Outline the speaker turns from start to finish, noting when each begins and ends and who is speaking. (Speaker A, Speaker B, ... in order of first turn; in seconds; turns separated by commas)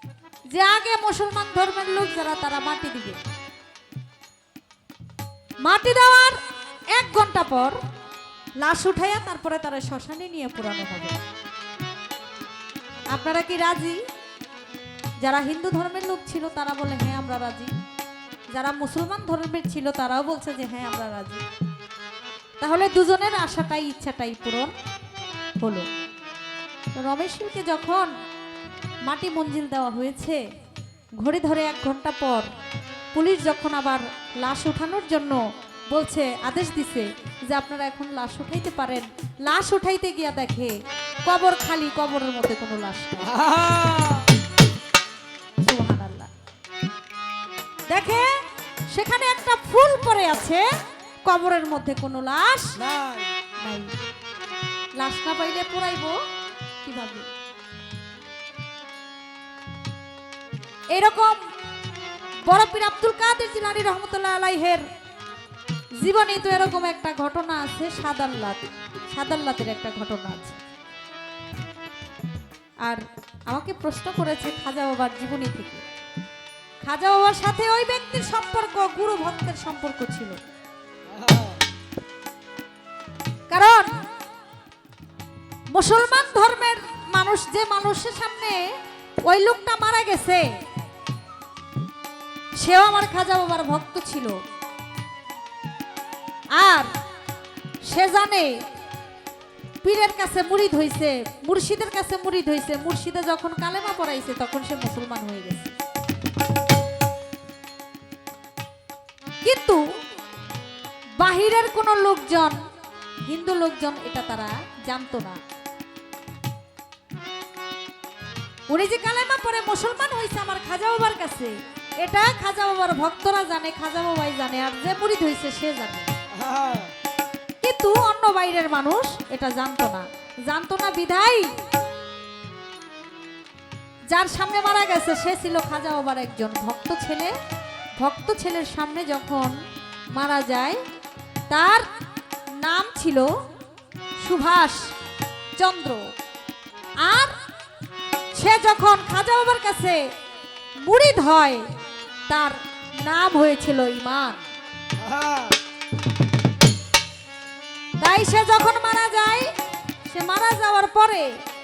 Speaker A: 0.5-3.2, Speaker A: 5.6-6.4, Speaker A: 6.9-7.8, Speaker A: 8.6-11.2, Speaker A: 13.1-14.0, Speaker A: 15.2-17.7, Speaker A: 18.5-21.4, Speaker A: 22.6-24.7, Speaker A: 25.6-25.9, Speaker A: 26.9-28.1, Speaker A: 29.0-30.4, Speaker A: 31.2-32.5, Speaker A: 33.1-43.3, Speaker B: 43.2-44.3, Speaker A: 45.6-46.3, Speaker A: 47.9-48.3, Speaker A: 48.9-50.7, Speaker A: 51.2-52.8, Speaker B: 52.8-53.3, Speaker A: 53.6-53.9, Speaker A: 55.0-56.2, Speaker A: 56.8-57.3, Speaker A: 60.9-61.4, Speaker A: 62.5-64.9, Speaker A: 66.0-70.6, Speaker A: 72.8-75.8, Speaker A: 76.8-80.4, Speaker B: 81.1-81.6, Speaker A: 83.5-83.9, Speaker A: 85.7-90.5, Speaker A: 92.6-94.4, Speaker A: 96.5-96.9, Speaker A: 97.9-98.6, Speaker A: 99.8-105.7, Speaker A: 109.4-109.8, Speaker A: 111.2-112.6, Speaker A: 113.3-115.4, Speaker A: 118.7-126.1, Speaker B: 126.3-126.9, Speaker A: 127.6-131.5, Speaker A: 134.1-137.3, Speaker A: 138.0-139.6, Speaker A: 140.1-140.8, Speaker A: 141.5-141.9, Speaker A: 142.6-143.3, Speaker A: 144.2-144.9, Speaker A: 145.6-146.1, Speaker A: 147.0-147.3, Speaker A: 148.3-150.0, Speaker A: 150.8-151.7, Speaker A: 152.3-154.4, Speaker B: 155.0-155.6, Speaker A: 158.0-159.5, Speaker A: 160.0-161.3